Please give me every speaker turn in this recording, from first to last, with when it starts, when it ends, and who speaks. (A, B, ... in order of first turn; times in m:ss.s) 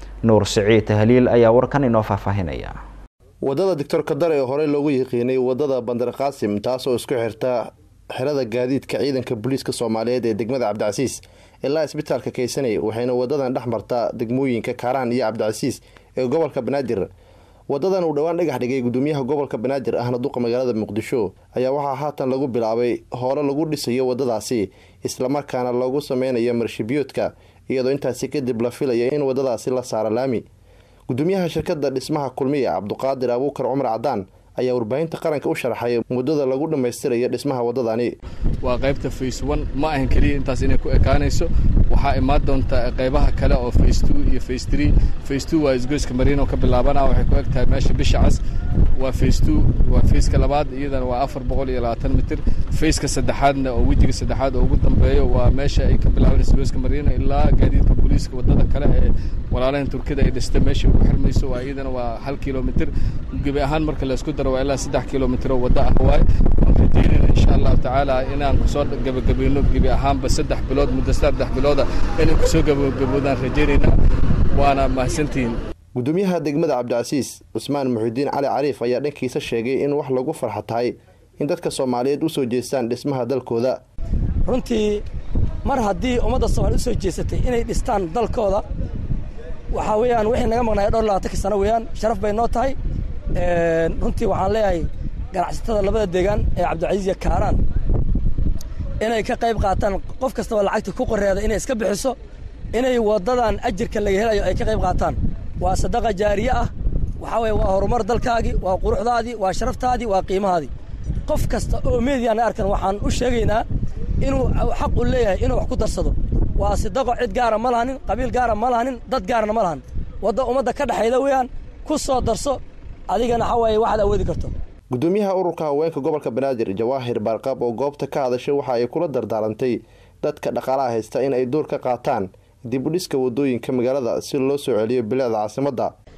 0:00.2-0:02.8 A
0:03.4-0:17.1 B
0:17.7-0:30.4 B
0:31.1-0:38.2 B
0:38.6-0:48.4 C
0:49.0-1:13.9 C
1:14.5-1:15.6 C
1:16.0-1:23.8 B
1:24.4-1:25.0 D
1:25.6-1:28.6 D
1:29.7-1:32.8 D
1:33.3-1:37.6 D
1:39.0-1:42.2 D
1:42.7-1:50.7 D
1:51.2-1:53.6 D
1:54.2-2:04.5 D
2:04.9-2:15.9 B